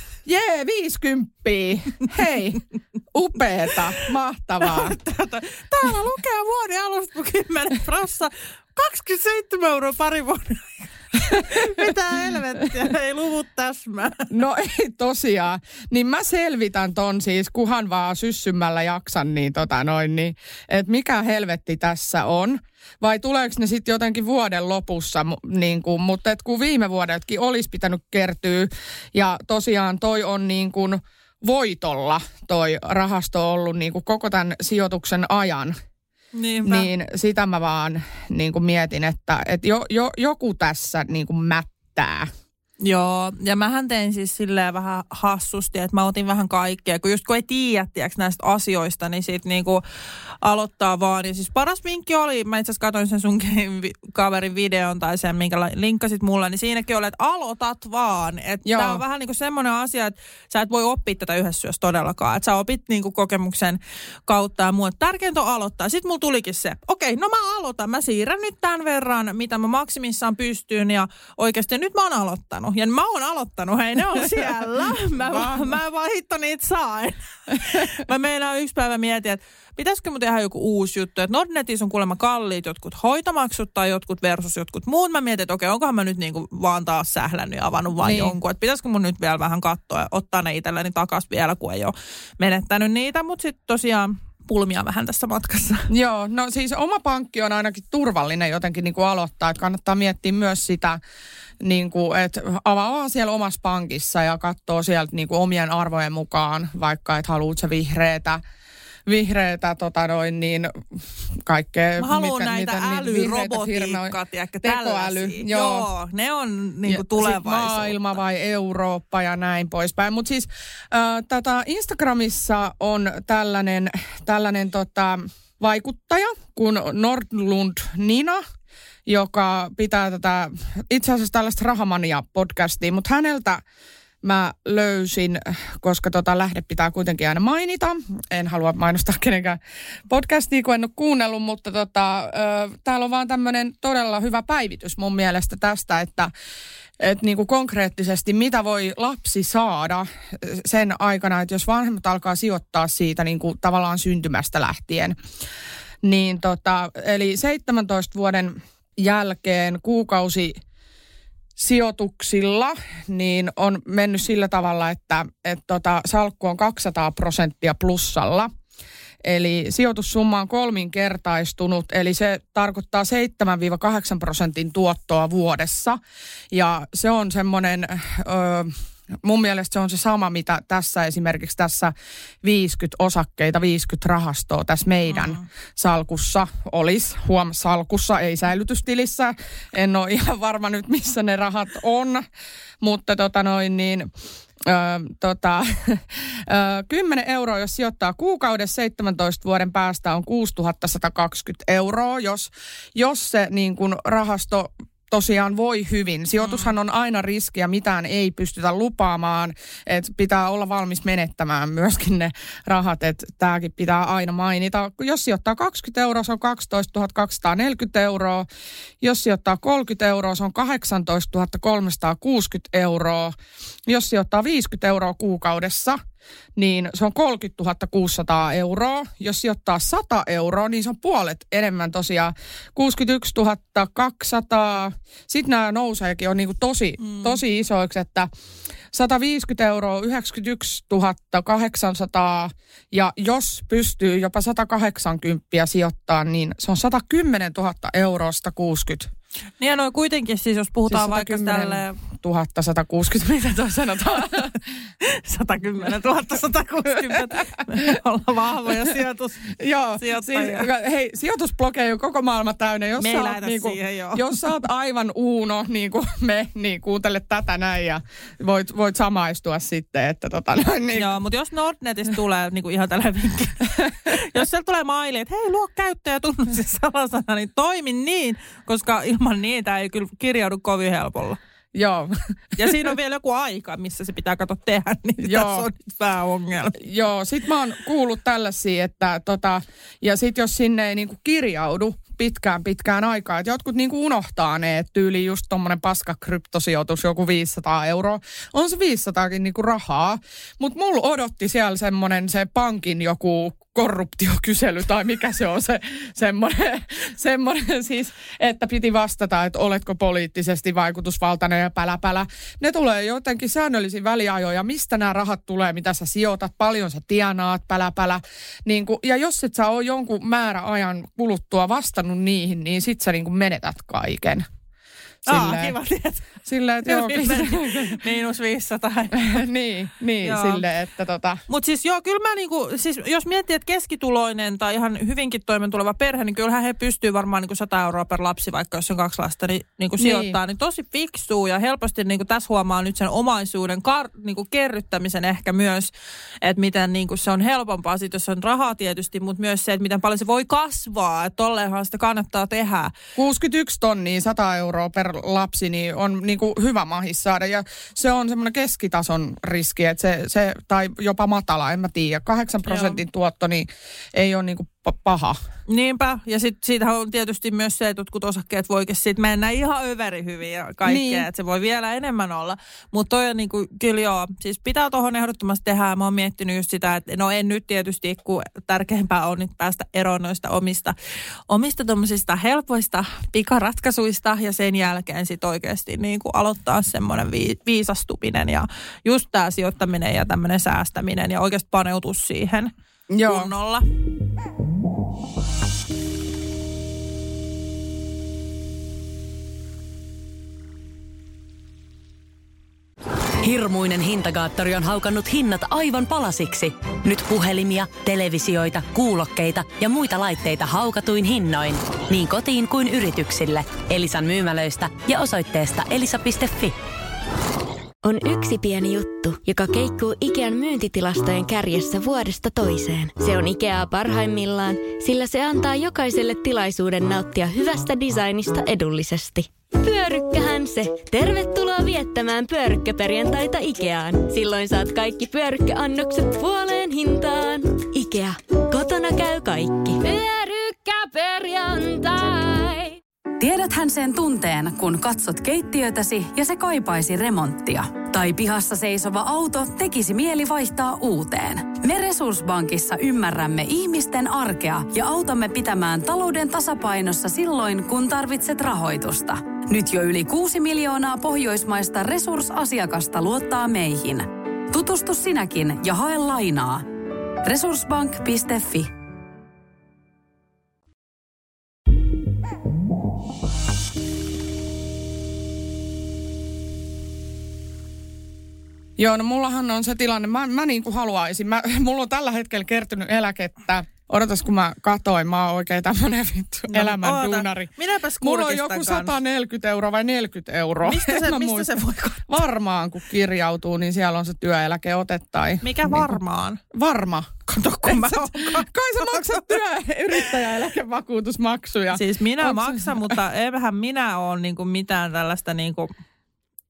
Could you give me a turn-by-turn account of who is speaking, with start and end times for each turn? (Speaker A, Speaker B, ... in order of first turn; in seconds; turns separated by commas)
Speaker A: 0.2-2.6, Speaker A: 3.1-5.0, Speaker B: 4.6-14.3, Speaker A: 11.3-11.8, Speaker A: 14.3-35.8, Speaker B: 36.4-36.9, Speaker A: 36.6-42.3, Speaker B: 42.8-49.8, Speaker B: 50.4-95.9, Speaker A: 58.6-59.0, Speaker A: 74.1-74.5, Speaker A: 75.2-75.7, Speaker A: 88.0-88.3, Speaker A: 95.9-101.0, Speaker A: 101.6-108.4, Speaker A: 109.0-115.9, Speaker B: 112.0-118.0, Speaker A: 116.9-128.4, Speaker A: 129.1-133.6, Speaker A: 134.2-146.3, Speaker A: 147.0-155.2, Speaker A: 156.0-160.6, Speaker A: 161.6-168.5, Speaker A: 169.2-176.0, Speaker A: 176.5-192.2, Speaker B: 185.1-185.4, Speaker A: 192.8-194.1, Speaker A: 194.6-218.5, Speaker A: 219.0-223.3, Speaker A: 223.9-226.0, Speaker A: 226.6-238.3, Speaker B: 237.0-237.4, Speaker A: 238.9-249.1, Speaker B: 249.6-251.9, Speaker A: 250.9-254.6, Speaker B: 255.0-260.7, Speaker A: 257.1-257.4, Speaker A: 259.5-271.1, Speaker B: 263.0-264.4, Speaker B: 270.9-281.4, Speaker A: 273.8-274.1, Speaker A: 281.7-282.9, Speaker B: 282.6-286.8, Speaker A: 285.2-285.7, Speaker A: 286.7-324.4, Speaker A: 325.2-325.8, Speaker B: 325.3-326.3, Speaker A: 326.4-328.0, Speaker B: 326.9-329.4, Speaker A: 329.1-331.4, Speaker B: 330.2-330.6, Speaker B: 331.5-345.9, Speaker A: 340.0-340.4, Speaker B: 346.4-352.9, Speaker A: 353.1-365.4, Speaker B: 362.6-363.0, Speaker B: 365.7-380.9, Speaker A: 370.8-371.3, Speaker B: 381.5-392.7, Speaker A: 393.1-393.5, Speaker B: 393.2-393.8, Speaker C: 403.4-416.8, Speaker D: 418.0-442.2, Speaker E: 443.4-466.9, Speaker E: 467.4-468.9, Speaker A: 479.0-491.7, Speaker B: 486.7-489.1, Speaker B: 490.8-492.4, Speaker A: 492.3-496.2, Speaker B: 495.6-496.6, Speaker A: 496.7-503.1, Speaker B: 497.5-499.6, Speaker B: 501.9-505.9